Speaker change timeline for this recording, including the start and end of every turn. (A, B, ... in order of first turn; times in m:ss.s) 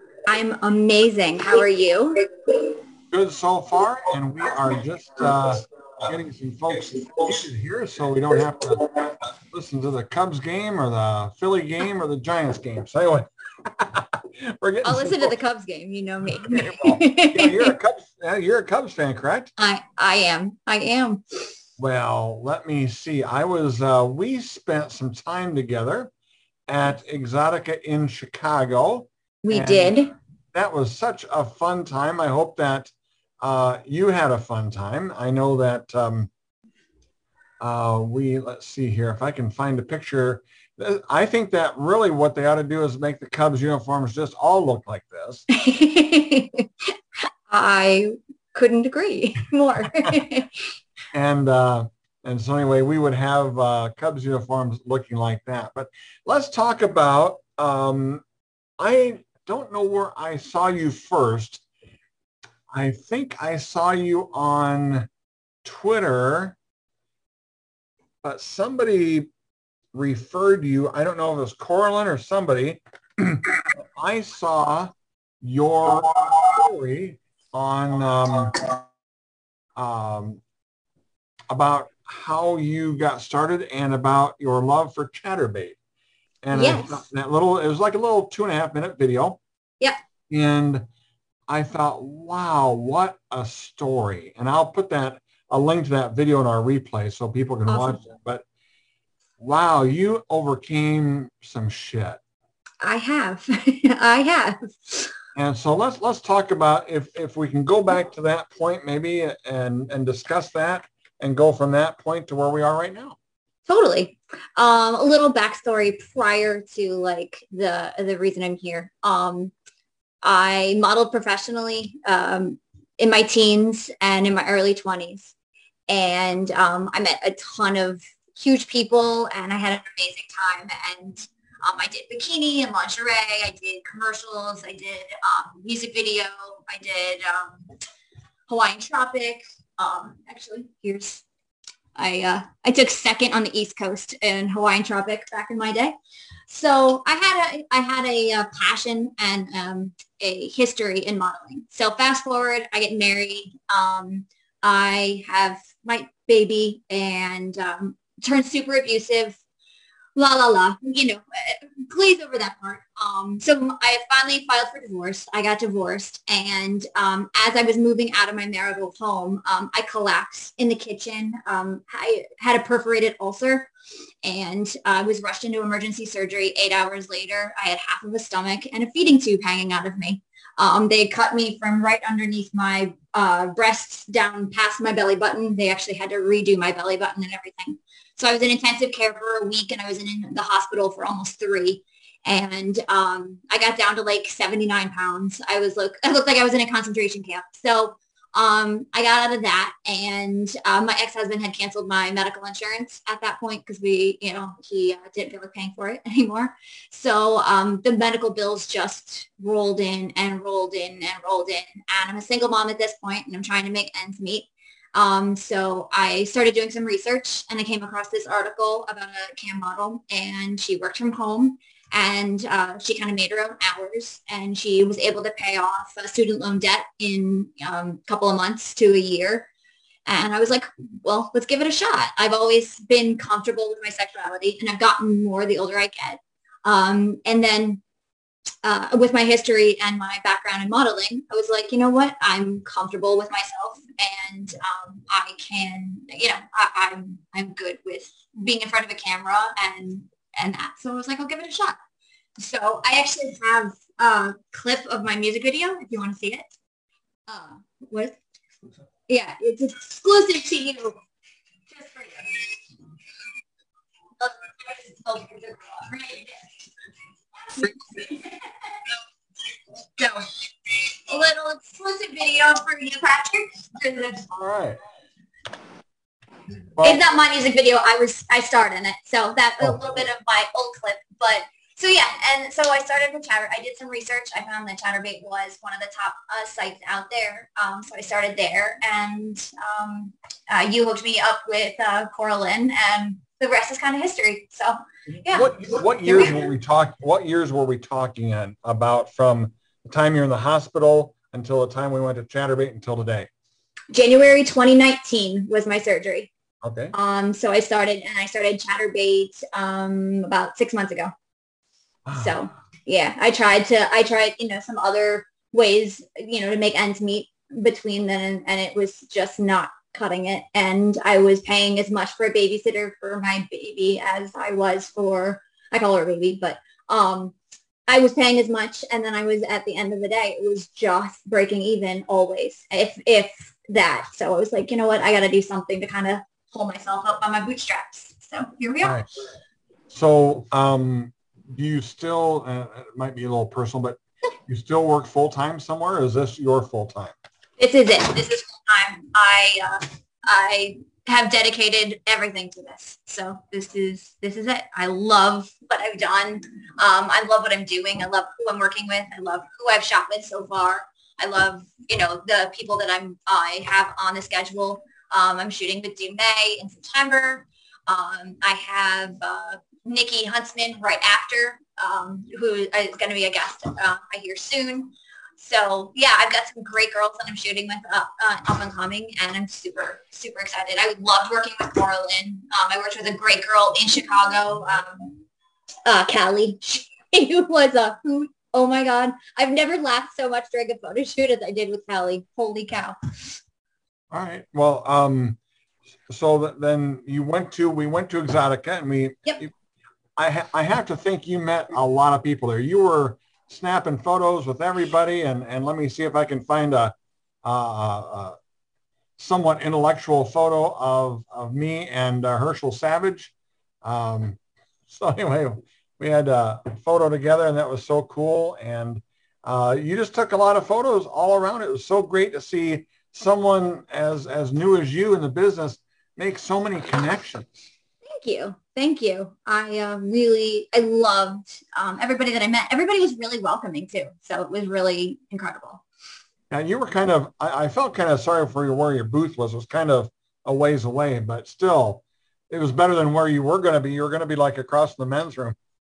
0:00.3-0:02.3 A
0:03.1-0:08.9 B
0:09.5-0:13.3 B
0:13.8-0:15.3 B
0:14.8-0:17.7 A
0:16.4-0:19.5 B
0:19.6-0:21.2 A
0:21.8-0:26.1 B
0:26.7-0:30.0 B
0:29.4-0:30.1 A
0:30.5-0:36.3 B
0:37.6-0:45.4 B
0:45.5-0:46.7 A
0:47.5-0:50.5 A
0:51.1-0:58.2 B
0:58.8-1:01.6 B
1:02.7-1:05.1 B
1:05.6-1:06.6 B
1:08.2-1:09.3 B
1:09.9-1:14.9 B
1:15.4-1:18.7 B
1:19.8-1:20.4 B
1:21.5-1:25.8 B
1:26.4-1:29.4 B
1:26.5-1:27.0 A
1:30.3-1:30.8 B
1:31.5-1:38.4 B
1:37.7-1:38.0 A
1:39.4-1:42.2 B
1:42.8-1:45.1 A
1:45.4-1:53.2 B
1:53.7-1:59.5 A
2:00.2-2:05.3 A
2:05.9-2:17.6 A
2:18.5-2:21.2 A
2:22.0-2:25.9 A
2:26.5-2:39.4 A
2:40.2-2:53.7 A
2:54.2-3:49.5 A
3:50.1-3:57.8 A
3:58.6-4:11.8 A
4:12.4-4:16.5 A
4:17.3-4:18.1 A
4:19.1-4:21.0 A
4:21.7-4:22.5 A
4:24.2-4:26.4 A
4:27.4-4:28.4 A
4:30.0-4:30.2 A
4:31.1-4:34.3 A
4:34.3-4:34.8 B
4:36.8-4:37.0 B
4:36.8-4:56.3 A
4:55.3-5:03.3 B
5:03.9-5:06.3 A
5:06.6-5:06.9 B
5:06.9-5:11.1 A
5:12.1-5:12.3 B
5:12.2-5:27.3 A
5:27.9-5:39.0 A
5:38.8-5:39.1 B
5:39.9-5:47.1 B
5:47.6-6:25.2 A
6:25.8-6:33.0 A
6:34.1-6:35.4 B
6:36.1-6:39.5 B
6:40.2-6:48.4 B
6:49.2-6:53.3 B
6:53.8-6:54.4 B
6:54.9-7:07.7 B
7:08.0-7:15.8 A
7:16.5-7:25.6 B